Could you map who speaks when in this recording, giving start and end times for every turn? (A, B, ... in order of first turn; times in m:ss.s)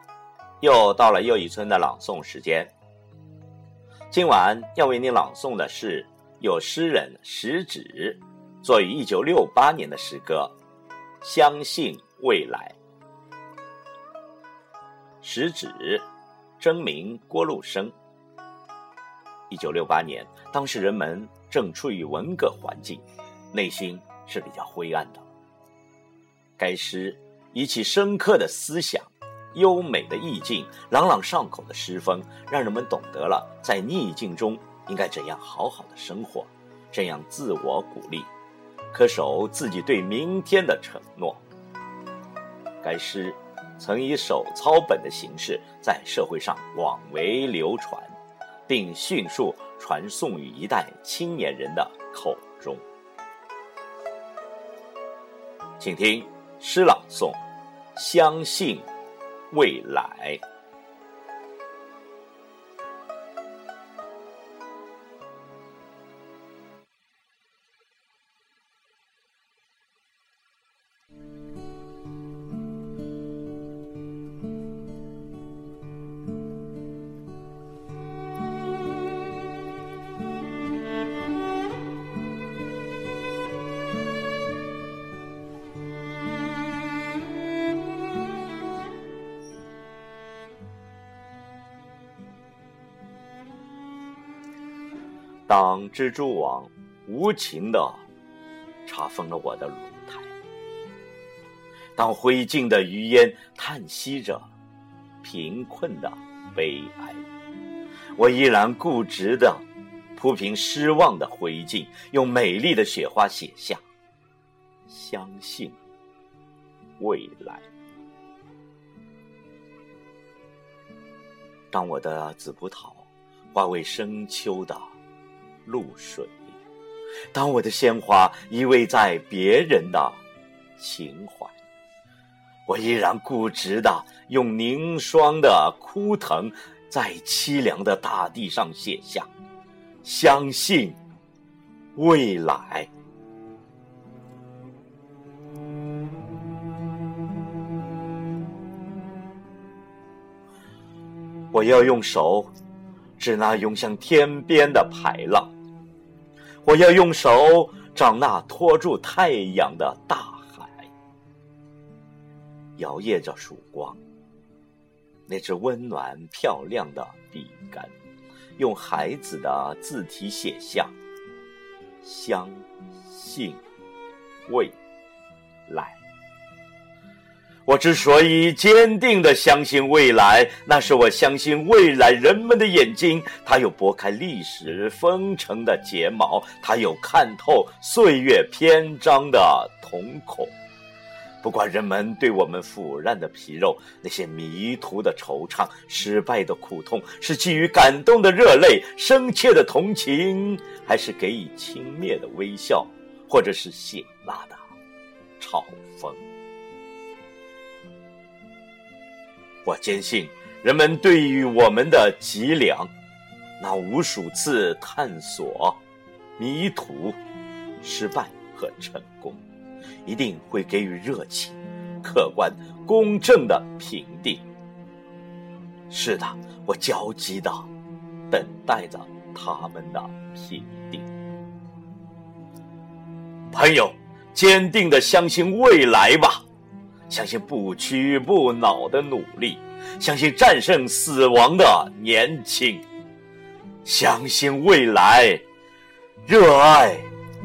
0:00.6-0:02.7 A
0:04.1-0:10.5 A
0:11.2-0:12.8 A
0:15.2-0:16.1 A
0:16.6-0:17.9 A
0:19.5-0:25.2 A
0:26.6-0:38.3 A
0:38.9-0:41.4 A
0:42.8-0:48.1 A
0:48.7-0:52.8 A
0:55.8-0:57.4 A
0:57.9-0:58.9 A
0:59.5-1:00.4 A
1:35.5-1:38.0 A
1:38.8-1:40.3 A
1:42.0-1:44.5 A
1:45.2-1:47.2 A
1:48.2-1:49.6 A
1:50.2-1:53.8 A
1:54.9-1:55.8 A
1:57.0-1:57.7 A
2:01.7-2:04.9 A
2:05.6-2:06.5 A
2:07.3-2:10.2 A
2:10.8-2:11.5 A
2:12.7-2:19.3 A
2:20.0-2:21.0 A
2:22.0-2:22.9 A
2:31.5-2:32.5 A
2:33.2-2:35.5 A
2:36.6-2:40.9 A
2:42.8-2:44.0 A
2:45.3-2:47.9 A
2:48.6-2:50.9 A
2:52.0-2:53.6 A
2:54.5-2:54.7 A
2:55.7-2:56.0 A
2:57.6-3:10.5 A
3:11.4-3:24.6 A
3:25.4-3:26.2 A
3:29.6-3:32.9 A
3:33.6-3:35.8 A
3:36.4-3:37.2 A
3:37.8-3:39.4 A
3:40.0-3:44.4 A
3:45.9-3:47.7 A
3:48.3-3:51.1 A
3:53.5-3:56.4 A
3:57.1-4:02.8 A
4:03.8-4:05.4 A
4:06.2-4:07.1 A